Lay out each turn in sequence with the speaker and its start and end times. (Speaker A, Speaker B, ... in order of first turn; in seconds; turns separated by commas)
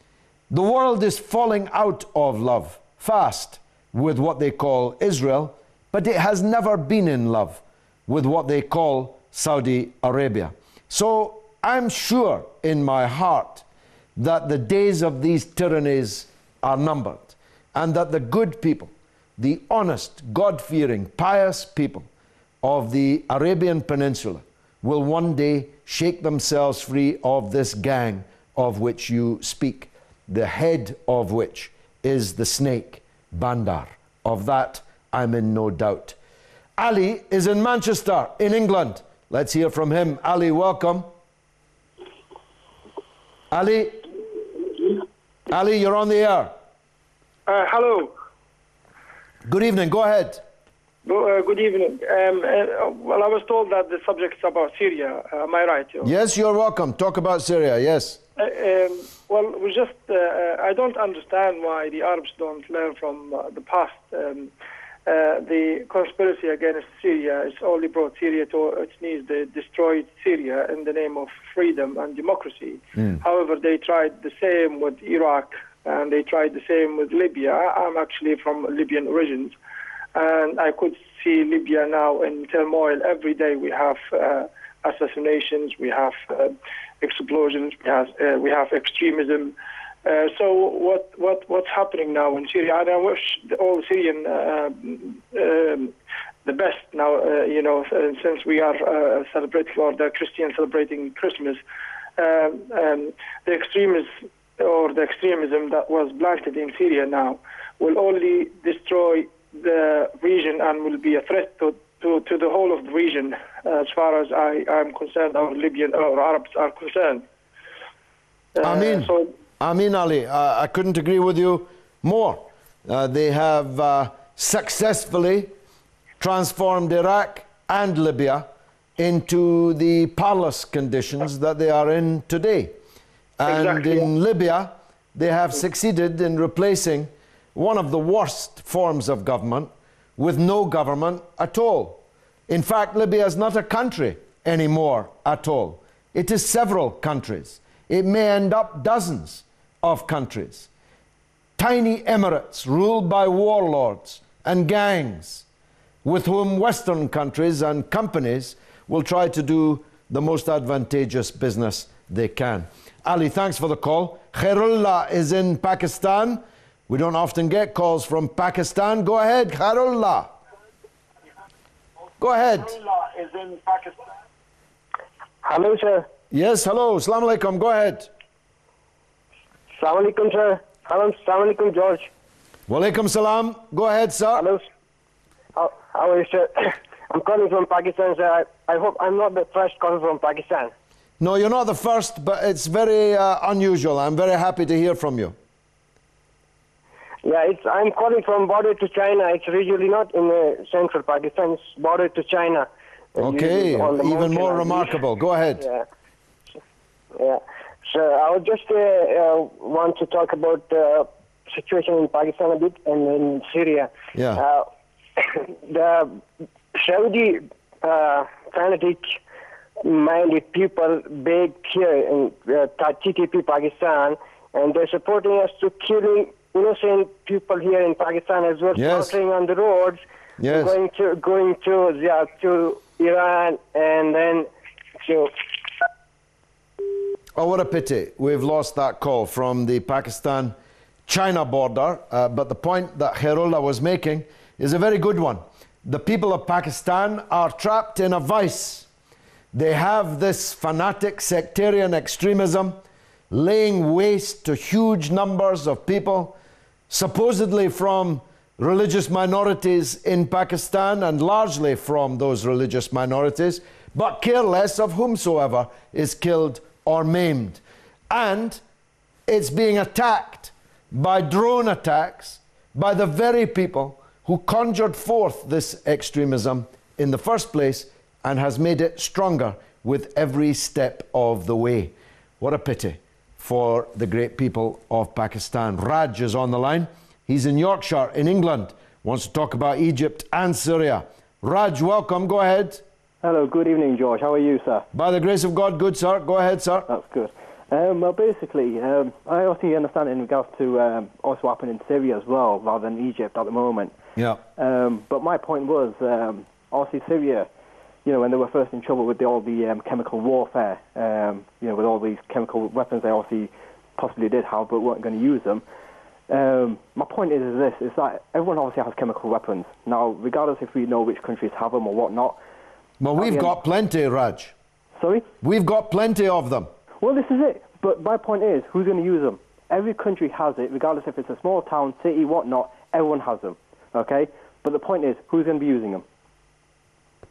Speaker A: 0.5-13.6, Speaker A: 14.2-22.1, Speaker A: 22.6-36.1, Speaker A: 36.8-41.1, Speaker A: 43.5-44.0, Speaker A: 45.5-46.5, Speaker B: 47.5-48.1, Speaker A: 49.4-50.4, Speaker B: 51.0-56.1, Speaker A: 56.0-58.2, Speaker B: 58.4-64.5, Speaker B: 65.0-79.5, Speaker B: 80.1-95.9, Speaker B: 96.4-101.6, Speaker B: 102.2-117.2, Speaker B: 118.5-119.3, Speaker A: 118.6-125.5, Speaker A: 126.2-128.5, Speaker A: 129.0-132.8, Speaker A: 133.4-150.7, Speaker B: 133.5-134.1, Speaker A: 151.6-155.4, Speaker A: 156.0-170.3, Speaker A: 172.2-172.8, Speaker B: 173.0-173.9, Speaker C: 175.4-176.1, Speaker A: 176.3-178.1, Speaker C: 179.7-182.1, Speaker A: 182.7-184.5, Speaker C: 184.3-184.6, Speaker C: 185.6-190.7, Speaker A: 191.2-195.3, Speaker C: 197.2-205.0, Speaker A: 203.2-205.6, Speaker C: 205.6-205.8, Speaker C: 207.2-214.7, Speaker A: 214.1-214.4, Speaker C: 215.2-216.2, Speaker C: 216.7-219.1, Speaker C: 219.8-235.3, Speaker A: 228.7-229.2, Speaker A: 230.4-230.7, Speaker A: 237.3-240.5, Speaker A: 241.1-248.9, Speaker A: 249.5-252.8, Speaker A: 253.3-256.4, Speaker A: 256.9-268.6, Speaker A: 269.3-292.8, Speaker D: 293.2-294.9, Speaker A: 294.9-296.9, Speaker D: 296.9-303.9, Speaker A: 304.1-304.4, Speaker D: 304.6-307.5, Speaker D: 308.0-315.6, Speaker D: 316.3-322.4, Speaker A: 323.0-324.5, Speaker D: 323.2-323.5, Speaker D: 325.0-325.3, Speaker A: 325.4-326.7, Speaker D: 327.0-336.0